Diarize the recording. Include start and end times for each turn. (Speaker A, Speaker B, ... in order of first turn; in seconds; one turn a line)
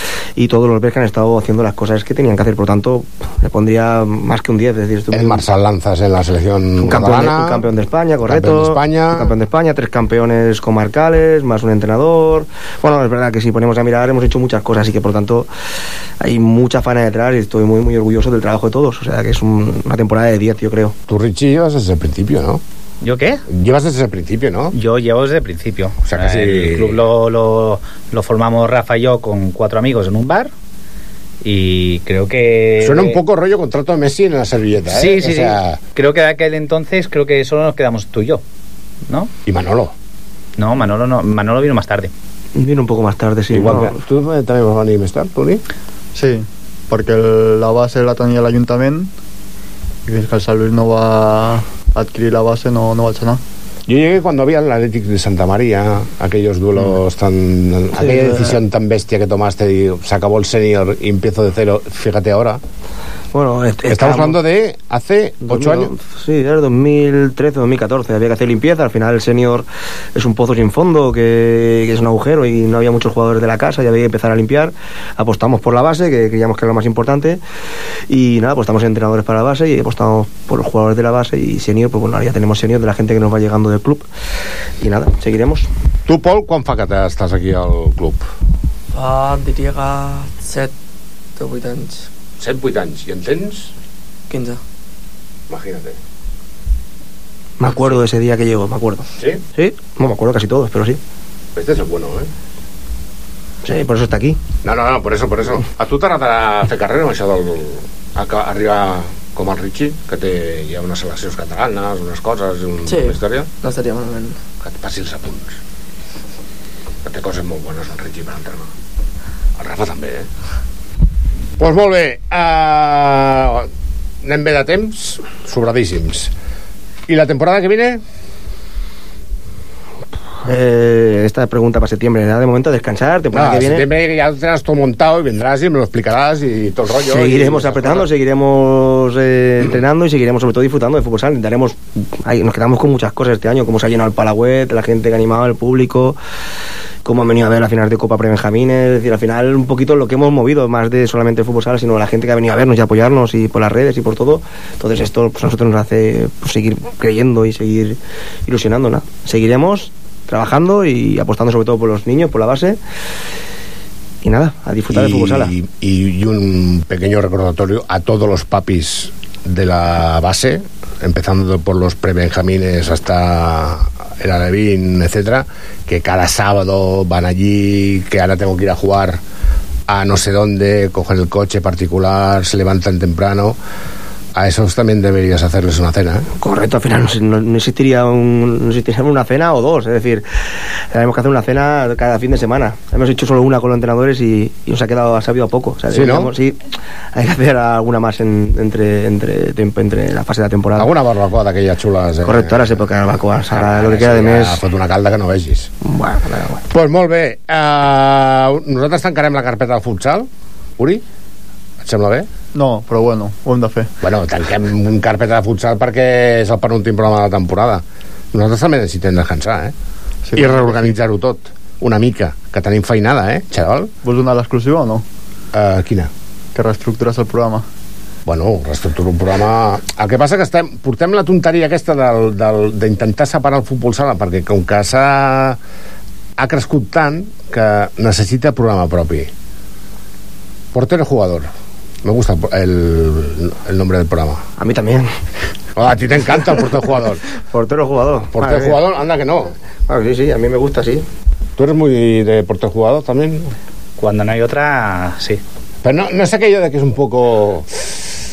Speaker A: 0.4-5.4
Speaker B: 5.1-7.6
Speaker A: 6.8-15.5
Speaker B: 8.3-9.3
Speaker A: 16.2-20.9
Speaker B: 21.1-22.6
Speaker C: 23.0-23.4
Speaker B: 23.5-24.7
Speaker C: 24.7-30.5
Speaker B: 26.0-27.0
Speaker C: 31.4-33.2
Speaker B: 32.8-35.8
Speaker C: 34.9-38.4
Speaker B: 39.5-39.9
Speaker C: 40.6-42.1
Speaker A: 42.5-43.9
Speaker B: 43.5-45.6
Speaker D: 46.1-49.1
Speaker D: 50.1-53.4
Speaker B: 53.9-62.6
Speaker A: 63.3-64.4
Speaker B: 63.9-65.9
Speaker A: 65.5-77.4
Speaker A: 78.1-84.1
Speaker A: 84.8-85.7
Speaker B: 86.1-88.2
Speaker E: 88.9-90.7
Speaker E: 91.3-92.1
Speaker B: 92.4-93.7
Speaker E: 94.3-94.6
Speaker B: 95.5-96.0
Speaker A: 97.6-101.0
Speaker B: 101.5-102.3
Speaker A: 103.6-104.4
Speaker B: 104.6-113.5
Speaker E: 112.8-114.4
Speaker B: 114.6-115.5
Speaker B: 117.0-118.7
Speaker B: 119.6-120.3
Speaker B: 121.6-123.7
Speaker B: 124.2-126.3
Speaker B: 127.1-128.0
Speaker A: 130.4-133.8
Speaker B: 133.3-138.1
Speaker A: 137.1-146.2
Speaker A: 147.0-162.8
Speaker A: 164.2-165.5
Speaker B: 164.9-179.2
Speaker B: 179.9-183.6
Speaker B: 184.3-186.3
Speaker A: 186.4-190.2
Speaker A: 190.9-196.6
Speaker B: 195.9-196.3
Speaker A: 197.1-200.9
Speaker B: 200.8-202.6
Speaker A: 202.2-204.6
Speaker B: 203.5-205.7
Speaker A: 205.8-206.6
Speaker B: 206.7-211.0
Speaker B: 211.8-212.3
Speaker D: 212.5-213.9
Speaker B: 214.0-219.7
Speaker D: 220.2-220.9
Speaker B: 220.3-223.9
Speaker D: 224.0-225.0
Speaker B: 225.5-226.1
Speaker D: 226.5-227.6
Speaker B: 228.2-235.6
Speaker B: 236.4-239.3
Speaker B: 240.7-241.5
Speaker B: 242.0-244.4
Speaker A: 244.6-245.1
Speaker B: 245.8-247.2
Speaker A: 247.5-248.8
Speaker B: 248.3-249.5
Speaker A: 249.9-251.0
Speaker B: 251.6-253.5
Speaker C: 254.0-255.4
Speaker B: 255.8-258.0